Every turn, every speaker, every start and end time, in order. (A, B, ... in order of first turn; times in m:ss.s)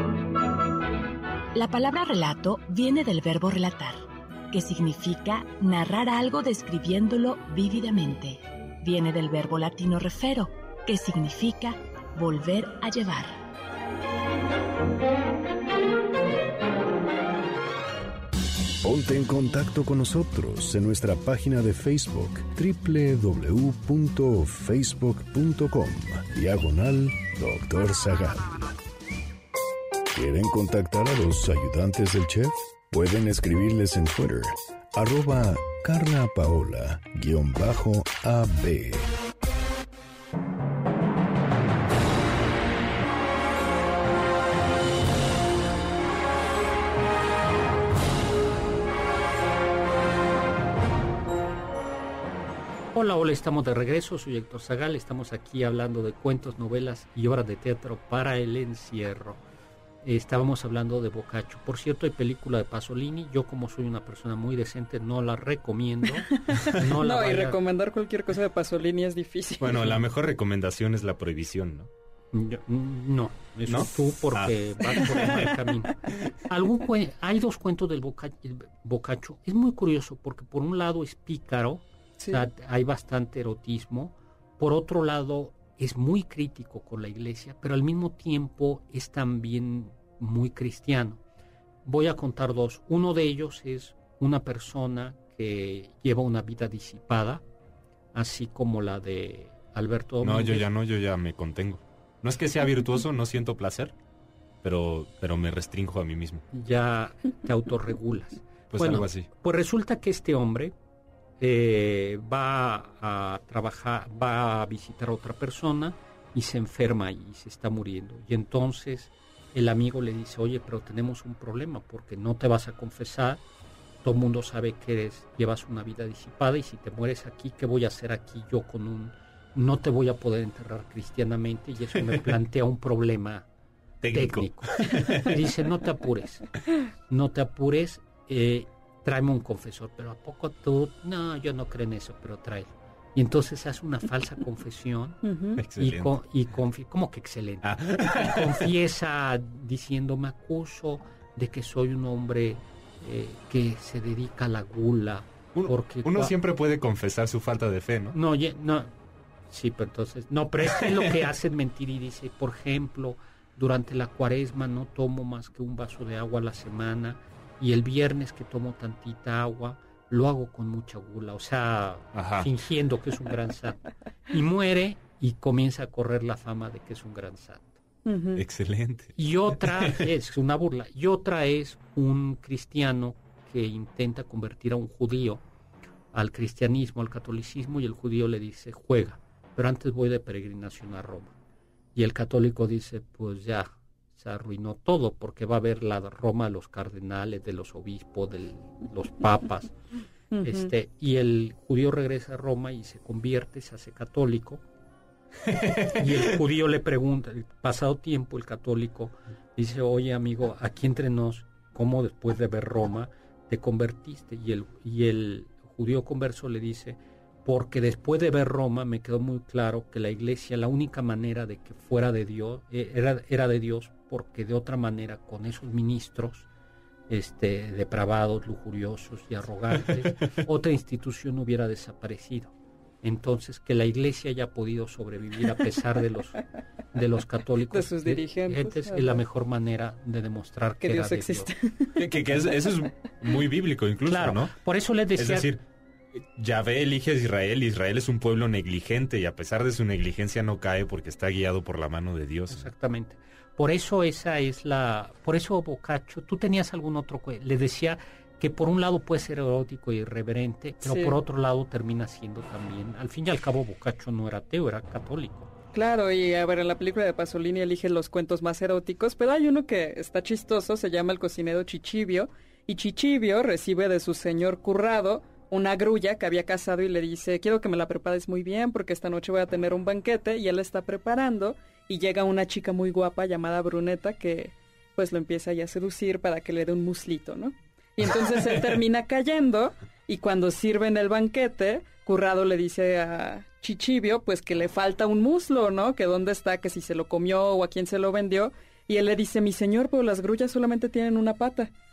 0:01.6-0:13.4 A
0:18.8-0:28.8 B
0:30.1-0:39.1 B
0:52.9-0:59.4 C
1:00.0-1:07.6 C
1:06.2-1:10.0 D
1:09.6-1:11.9 E
1:12.3-1:31.2 C
1:13.7-1:15.5 E
1:22.2-1:22.5 D
1:31.8-1:37.4 C
1:38.1-1:40.7 C
1:40.2-1:43.9 E
1:44.6-1:46.4 E
1:46.5-1:50.7 C
1:48.7-1:49.3 E
1:51.4-2:03.4 C
2:04.0-2:13.5 C
2:14.0-2:15.4 E
2:14.1-2:16.5 C
2:17.1-2:25.2 C
2:25.2-2:25.6 D
2:25.6-2:26.1 E
2:25.8-2:36.3 C
2:27.6-2:28.7 E
2:35.5-2:38.2 E
2:38.2-2:38.9 C
2:39.5-2:57.8 C
2:52.2-2:52.5 E
2:58.0-2:58.4 D
2:58.4-2:59.1 E
2:59.2-3:05.4 C
2:59.7-3:00.0 E
3:06.1-3:11.3 C
3:12.0-3:19.8 C
3:20.3-3:20.7 D
3:20.4-3:24.6 C
3:25.5-3:26.2 E
3:25.9-3:46.5 C
3:47.1-3:56.4 C
3:49.8-3:50.3 E
3:56.9-4:01.5 C
3:57.7-3:59.2 D
4:00.8-4:02.1 D
4:02.0-4:04.5 E
4:04.1-4:05.5 C
4:05.2-4:05.6 E
4:06.2-4:12.7 E
4:12.5-4:25.5 C
4:20.8-4:21.2 D
4:25.7-5:01.7 D